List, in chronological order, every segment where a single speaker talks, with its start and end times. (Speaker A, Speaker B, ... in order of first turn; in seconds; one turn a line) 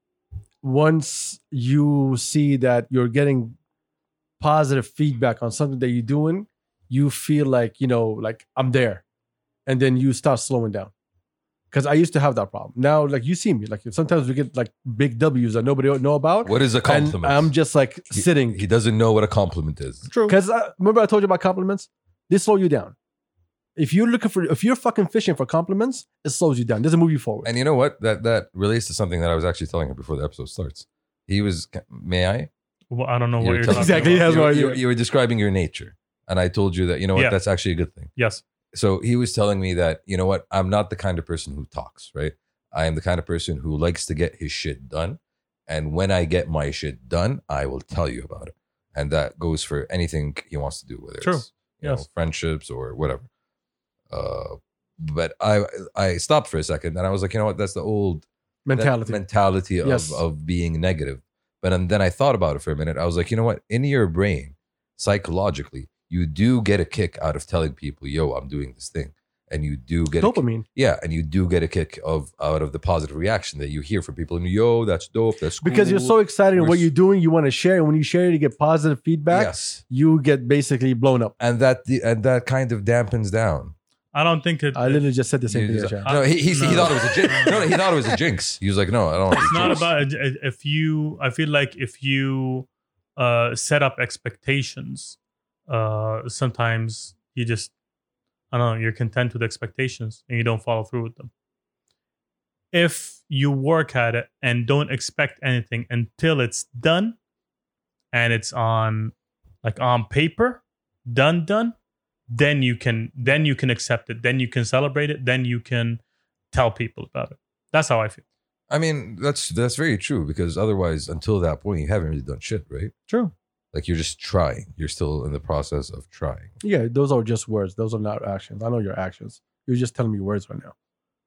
Speaker A: 0.6-3.5
Speaker A: 4.4-9.0
Speaker A: 9.7-10.9
Speaker A: 11.7-18.6
Speaker B: 16.4-17.5
Speaker B: 18.1-20.1
Speaker C: 20.1-20.4
Speaker A: 20.2-22.9
Speaker A: 23.8-27.5
Speaker B: 27.4-32.5
Speaker C: 32.9-34.3
Speaker B: 33.4-38.1
Speaker A: 33.7-34.8
Speaker C: 38.1-38.4
Speaker B: 38.7-53.3
Speaker C: 51.2-52.0
Speaker B: 54.1-76.9
Speaker A: 58.6-59.2
Speaker A: 59.8-60.2
Speaker A: 70.2-70.6
Speaker A: 75.6-81.3
Speaker B: 79.3-79.8
Speaker B: 81.4-83.7
Speaker C: 84.1-85.0
Speaker A: 84.7-86.1
Speaker B: 85.5-89.9
Speaker C: 86.0-87.7
Speaker C: 89.3-95.2
Speaker C: 95.7-97.7
Speaker C: 98.5-101.3
Speaker C: 102.7-107.2
Speaker C: 108.1-111.7
Speaker C: 112.3-116.0
Speaker C: 116.5-118.2
Speaker B: 118.7-122.9
Speaker C: 123.1-123.3
Speaker B: 123.7-126.5
Speaker A: 126.6-130.7